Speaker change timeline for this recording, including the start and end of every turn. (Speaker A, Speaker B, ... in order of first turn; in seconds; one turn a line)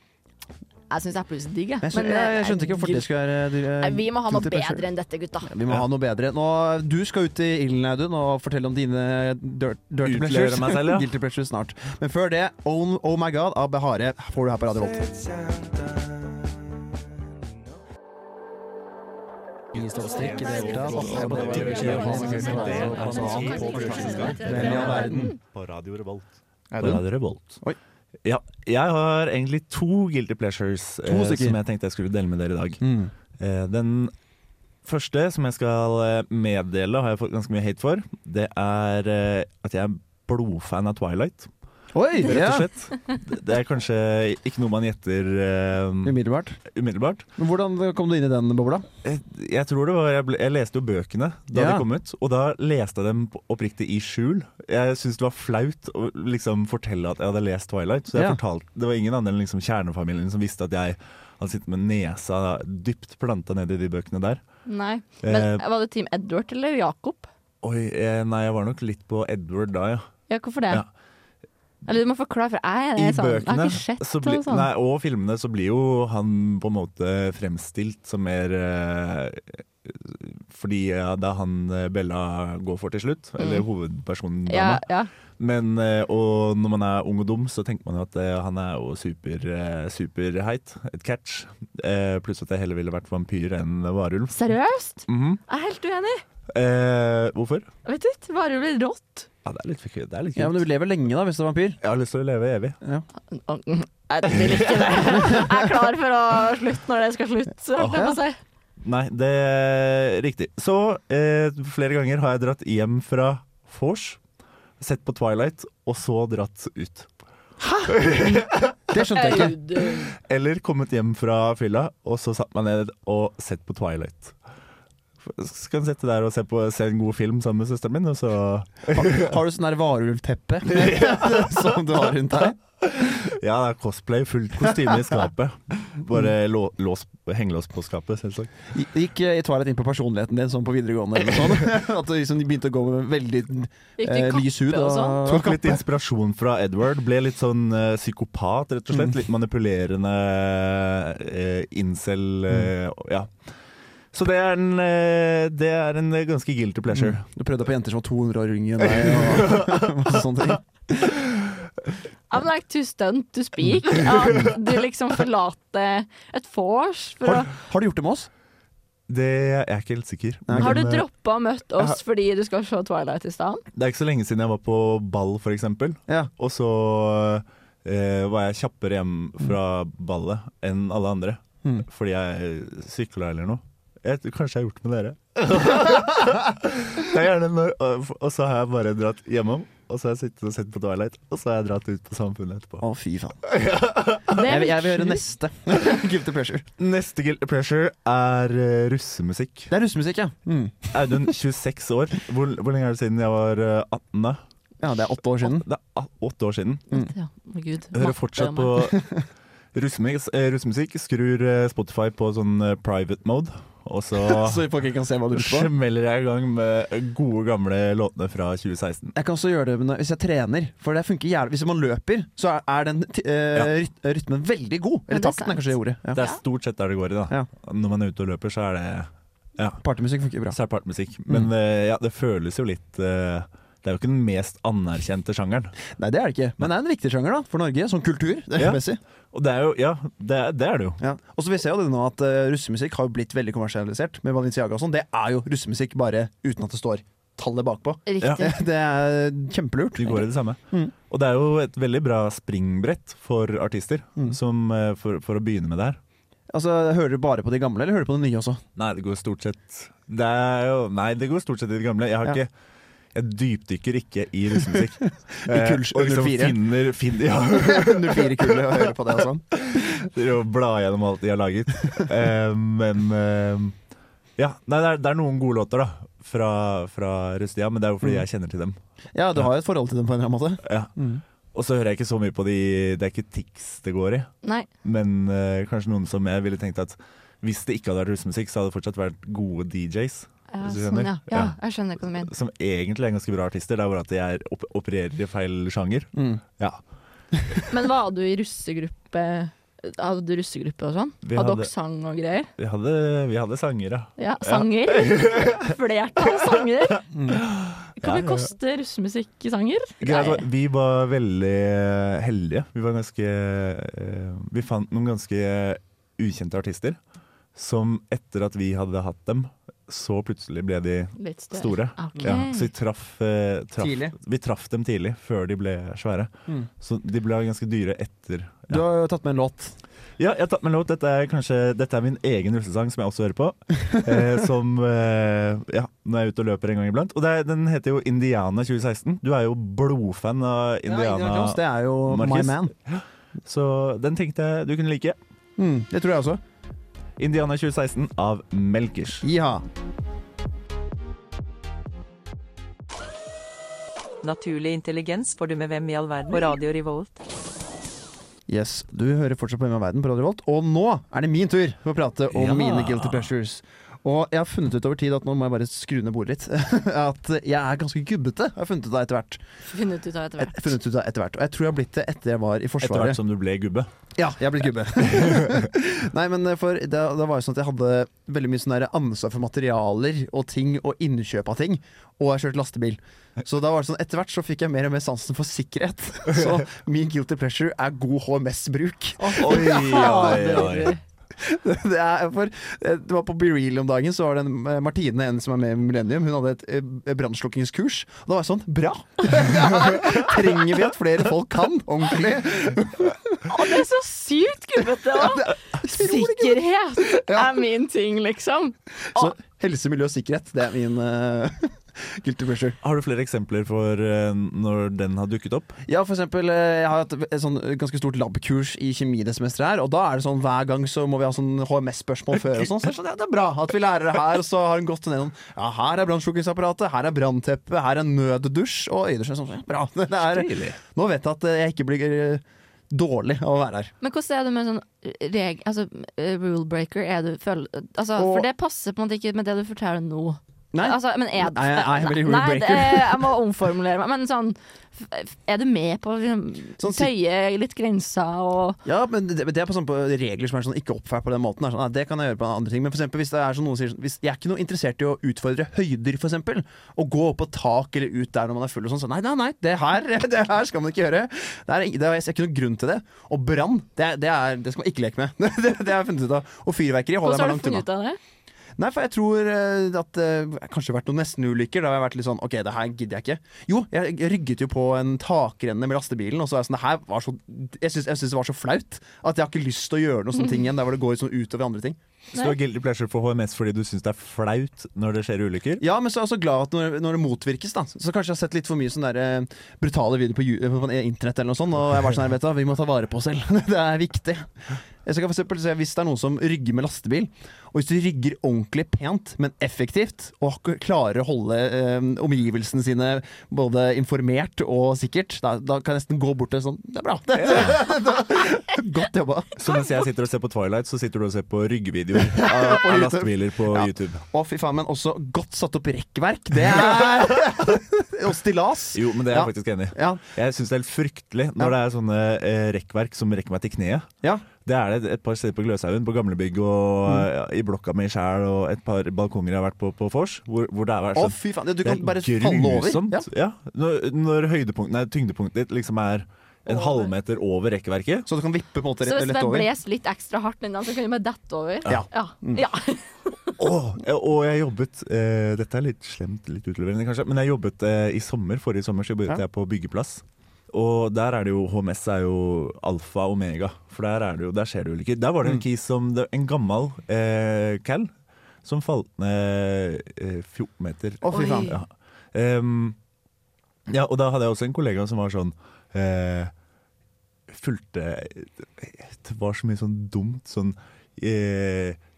Speaker A: 0.9-3.1
Speaker B: 1.8-4.9
Speaker A: 3.8-5.5
Speaker B: 5.5-15.1
Speaker C: 10.0-11.1
Speaker C: 20.1-27.6
Speaker B: 20.6-25.3
Speaker B: 26.7-27.0
Speaker C: 28.2-32.8
Speaker B: 31.1-31.6
Speaker B: 32.8-33.1
Speaker C: 33.4-34.1
Speaker C: 34.8-41.5
Speaker B: 41.9-42.7
Speaker C: 42.2-46.2
Speaker B: 46.0-46.6
Speaker C: 46.7-47.2
Speaker B: 47.4-48.9
Speaker C: 49.0-64.4
Speaker B: 51.5-51.9
Speaker B: 58.1-58.4
Speaker A: 64.7-67.3
Speaker C: 65.2-65.6
Speaker C: 67.6-70.1
Speaker A: 70.3-70.8
Speaker A: 71.8-74.7
Speaker C: 73.0-84.8
Speaker A: 83.4-83.6
Speaker A: 84.5-85.1
Speaker C: 85.4-94.4
Speaker A: 94.3-96.2
Speaker C: 95.1-95.4
Speaker C: 96.5-97.7
Speaker A: 97.8-99.3
Speaker C: 99.4-100.6
Speaker B: 100.3-101.8
Speaker C: 101.8-102.8
Speaker A: 103.3-108.4
Speaker C: 108.8-114.2
Speaker C: 114.8-117.1
Speaker B: 117.6-118.0
Speaker C: 117.9-118.8
Speaker B: 118.9-119.5
Speaker A: 119.1-120.1
Speaker C: 120.1-124.4
Speaker C: 125.2-129.3
Speaker B: 128.9-132.6
Speaker C: 130.6-131.8
Speaker C: 132.8-138.6
Speaker B: 138.7-145.8
Speaker A: 144.0-145.2
Speaker C: 145.2-153.3
Speaker C: 154.1-157.2
Speaker B: 156.9-161.1
Speaker C: 159.2-160.0
Speaker A: 162.3-167.5
Speaker B: 167.2-168.3
Speaker C: 169.1-171.0
Speaker B: 170.5-170.8
Speaker A: 170.6-173.6
Speaker C: 173.7-192.8
Speaker B: 192.8-193.4
Speaker C: 193.4-194.4
Speaker A: 194.3-195.2
Speaker B: 194.4-196.7
Speaker C: 196.8-199.7
Speaker B: 199.7-201.2
Speaker C: 200.9-204.4
Speaker B: 204.8-205.7
Speaker C: 205.4-206.9
Speaker A: 206.9-208.7
Speaker C: 207.9-209.1
Speaker C: 209.7-214.6
Speaker B: 214.1-215.7
Speaker C: 215.3-219.1
Speaker B: 219.1-226.2
Speaker A: 225.1-226.4
Speaker C: 226.1-229.8
Speaker B: 229.8-230.6
Speaker C: 230.5-235.8
Speaker B: 235.9-239.0
Speaker C: 239.3-241.0
Speaker B: 241.0-250.9
Speaker A: 248.1-248.6
Speaker C: 249.9-256.0
Speaker B: 256.5-258.6
Speaker C: 258.8-262.5
Speaker C: 263.1-268.6
Speaker B: 265.4-266.6
Speaker B: 267.5-269.8
Speaker C: 269.5-273.7
Speaker C: 274.4-278.8
Speaker B: 279.1-281.2
Speaker C: 280.6-280.9
Speaker C: 281.5-284.3
Speaker C: 284.8-291.5
Speaker A: 290.5-292.3
Speaker C: 292.2-296.8
Speaker B: 296.1-296.4
Speaker A: 297.7-302.5
Speaker C: 301.2-301.7
Speaker C: 302.6-305.7
Speaker A: 304.2-307.0
Speaker B: 307.1-307.4
Speaker C: 307.3-308.5
Speaker A: 308.0-310.4
Speaker C: 310.0-317.0
Speaker C: 317.5-328.8
Speaker A: 321.2-322.7
Speaker B: 323.8-324.1
Speaker B: 328.7-329.8
Speaker C: 330.2-345.2
Speaker B: 340.9-342.7
Speaker B: 345.6-346.4
Speaker C: 347.2-349.2
Speaker B: 349.2-349.6
Speaker D: 354.2-357.2
Speaker B: 358.5-369.4
Speaker C: 362.3-363.3
Speaker A: 369.6-370.8
Speaker B: 370.4-373.2
Speaker C: 372.8-373.9
Speaker B: 374.1-390.7
Speaker C: 375.1-375.6
Speaker A: 389.2-391.0
Speaker C: 389.4-390.9
Speaker B: 391.4-403.4
Speaker A: 403.4-409.3
Speaker B: 405.1-407.5
Speaker B: 409.1-412.8
Speaker C: 412.8-415.8
Speaker B: 415.9-433.9
Speaker C: 430.2-430.8
Speaker A: 434.0-448.8
Speaker B: 438.1-438.5
Speaker B: 440.7-443.3
Speaker B: 446.8-447.1
Speaker B: 448.8-467.9
Speaker A: 467.2-468.2
Speaker B: 468.8-482.0
Speaker C: 482.3-485.8
Speaker B: 485.8-509.5
Speaker C: 507.4-507.8
Speaker C: 509.6-514.2
Speaker B: 512.2-520.2
Speaker C: 518.9-524.1
Speaker C: 524.6-538.3
Speaker B: 531.1-533.3
Speaker A: 536.7-537.1
Speaker B: 538.2-539.7
Speaker A: 539.0-543.5
Speaker B: 541.9-542.6
Speaker C: 543.6-558.1
Speaker C: 558.6-563.0
Speaker B: 561.2-561.7
Speaker A: 561.3-561.8
Speaker C: 563.9-566.5
Speaker C: 567.5-572.0